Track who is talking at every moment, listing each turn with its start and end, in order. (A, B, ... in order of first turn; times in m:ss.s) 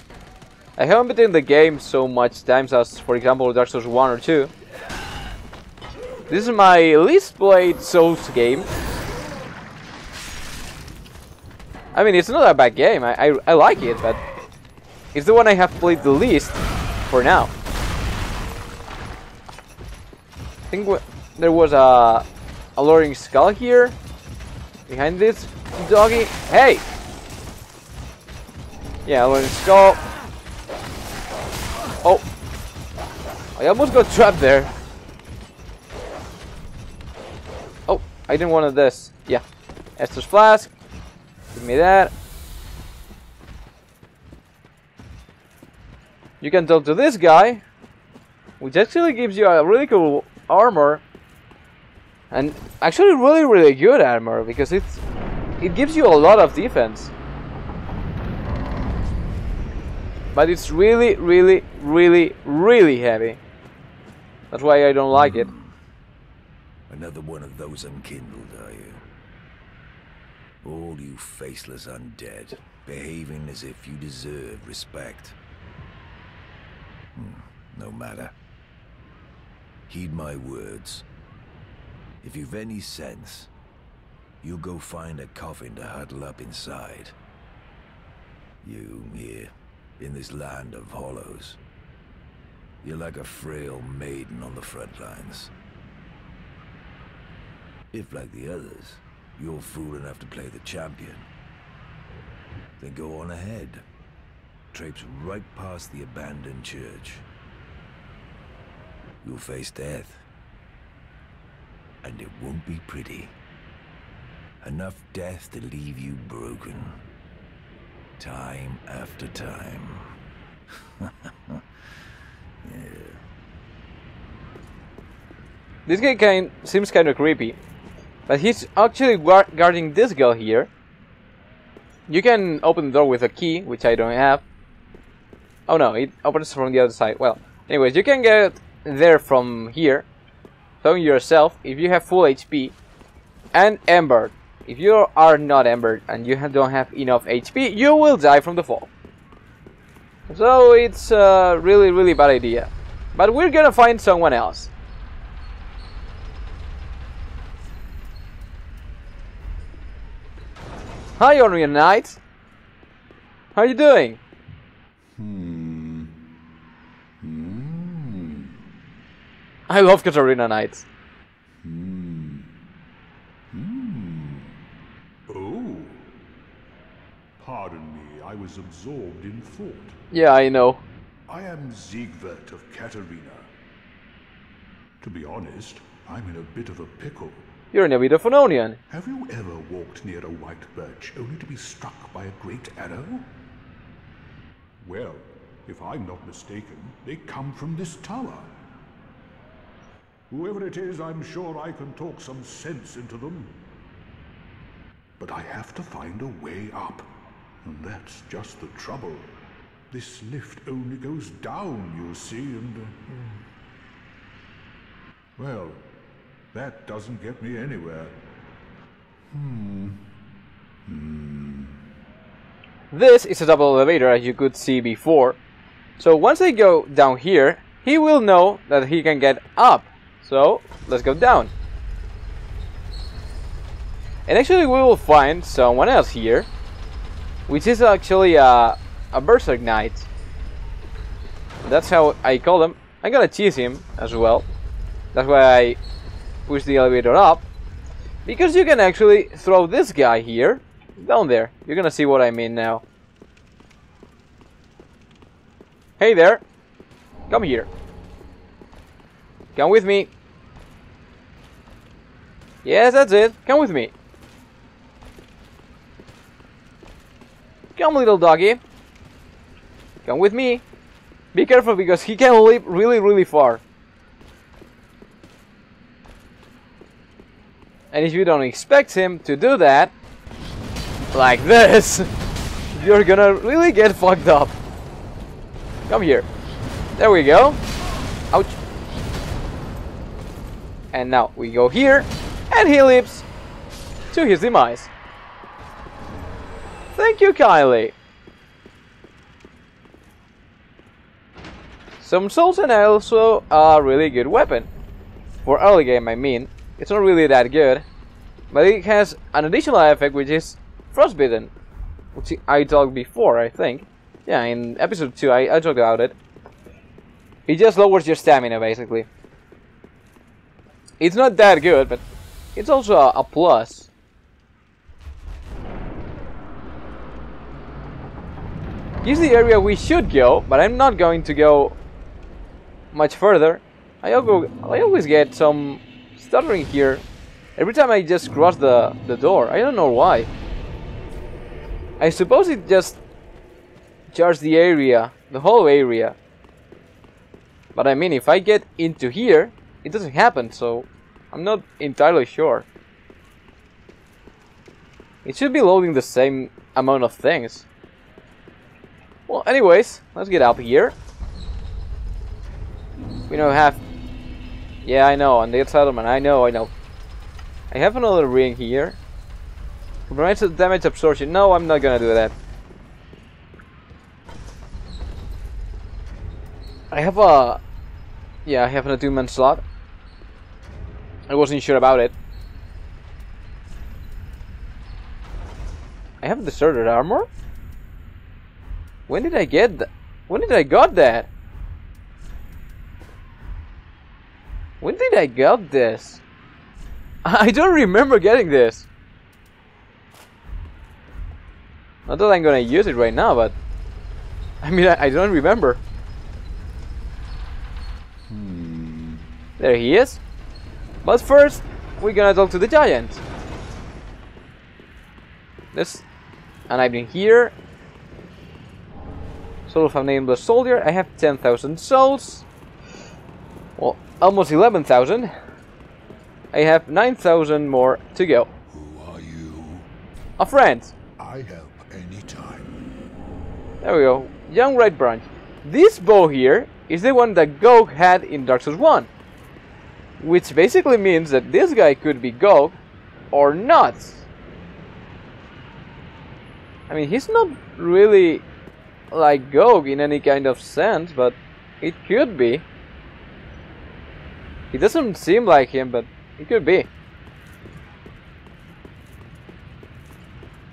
0:00.8-0:04.5 A
0:06.3-0:08.7 A
0:11.9-0:14.2 A
0:15.1-0:17.5 A
0:20.7-0:22.2 A
0:22.8-0:24.0 A
0:24.9-0:26.8 A
0:29.0-0:30.0 A
0:33.6-0:34.7 A
0:37.9-0:39.4 A
0:40.0-0:40.7 A
0:41.5-0:42.1 A
0:46.4-0:47.6 A
0:48.6-0:51.0 A
0:52.3-0:55.0 A
0:55.6-0:57.1 A
1:00.3-1:03.4 A
1:04.5-1:05.5 A
1:05.1-1:05.7 B
1:06.9-1:09.0 B
1:10.6-1:15.3 B
1:17.2-1:18.3 B
1:19.9-1:21.0 B
1:22.2-1:23.5 B
1:24.4-1:27.1 B
1:28.6-1:31.6 B
1:32.8-1:35.5 B
1:37.9-1:41.3 B
1:42.8-1:43.8 B
1:44.7-1:47.2 B
1:49.2-1:50.2 B
1:52.0-1:53.3 B
1:54.6-1:56.9 B
1:58.2-2:00.0 B
2:01.0-2:01.6 B
2:02.6-2:03.2 B
2:05.9-2:07.6 A
2:08.3-2:10.7 A
2:12.1-2:14.4 A
2:15.7-2:20.1 A
2:20.8-2:22.7 A
2:23.5-2:28.9 A
2:30.3-2:34.7 A
2:41.2-2:42.2 A
2:43.5-2:44.2 A
2:45.2-2:46.1 C
2:47.2-2:48.5 C
2:49.7-2:50.8 A
2:51.6-2:52.5 C
2:53.5-2:54.5 C
2:55.3-2:56.1 C
2:57.4-3:00.0 C
3:00.1-3:00.8 A
3:01.3-3:03.5 C
3:05.0-3:07.5 C
3:07.7-3:08.8 A
3:08.9-3:13.3 C
3:14.8-3:18.5 C
3:20.3-3:23.6 C
3:25.2-3:29.3 C
3:29.9-3:33.4 C
3:35.4-3:35.9 C
3:36.5-3:38.2 C
3:39.3-3:40.1 C
3:40.8-3:41.8 C
3:42.9-3:45.4 A
3:46.0-3:51.5 A
3:54.3-3:56.5 A
3:57.5-4:00.0 A
4:01.6-4:04.5 A
4:05.1-4:05.8 A
4:06.5-4:07.5 A
4:08.2-4:12.8 A
4:16.0-4:16.4 A
4:17.3-4:17.7 A
4:19.6-4:20.1 A
4:22.6-4:23.9 A
4:27.8-4:28.6 A
4:30.0-4:30.6 A
4:31.3-4:33.6 A
4:37.9-4:39.9 A
4:41.1-4:42.1 A
4:42.7-4:44.5 A
4:45.9-4:46.3 A
4:47.0-4:47.6 A
4:48.3-4:48.6 A
4:50.9-4:53.2 A
4:54.1-4:54.9 A
4:57.0-4:57.9 A
5:02.0-5:04.7 A
5:05.4-5:07.8 A
5:08.5-5:11.5 A
5:12.1-5:16.2 A
5:17.5-5:19.1 A
5:21.0-5:22.0 A
5:22.6-5:23.9 A
5:29.0-5:31.8 A
5:32.9-5:37.0 A
5:37.6-5:40.3 A
5:42.0-5:43.0 A
5:44.1-5:46.2 A
5:47.7-5:52.6 A
5:55.2-5:57.6 A
5:59.3-6:01.0 A
6:03.3-6:03.8 A
6:04.8-6:06.7 A
6:07.7-6:09.0 A
6:10.1-6:12.3 A
6:16.9-6:17.6 A
6:18.4-6:19.6 A
6:21.3-6:22.1 A
6:26.2-6:27.3 A
6:29.1-6:31.3 A
6:34.8-6:36.2 A
6:37.2-6:38.9 A
6:42.1-6:43.5 A
6:44.6-6:45.8 A
6:48.3-6:49.2 C
6:49.6-6:50.2 A
6:51.0-6:53.2 A
6:55.7-6:56.0 A
6:56.7-6:57.5 A
6:59.7-7:02.4 A
7:03.8-7:05.3 A
7:06.5-7:08.5 A
7:08.7-7:09.9 C
7:10.4-7:10.9 A
7:11.2-7:12.8 C
7:13.8-7:19.1 A
7:20.2-7:22.8 A
7:23.3-7:24.2 A
7:26.9-7:28.4 A
7:29.1-7:32.6 A
7:34.7-7:36.9 A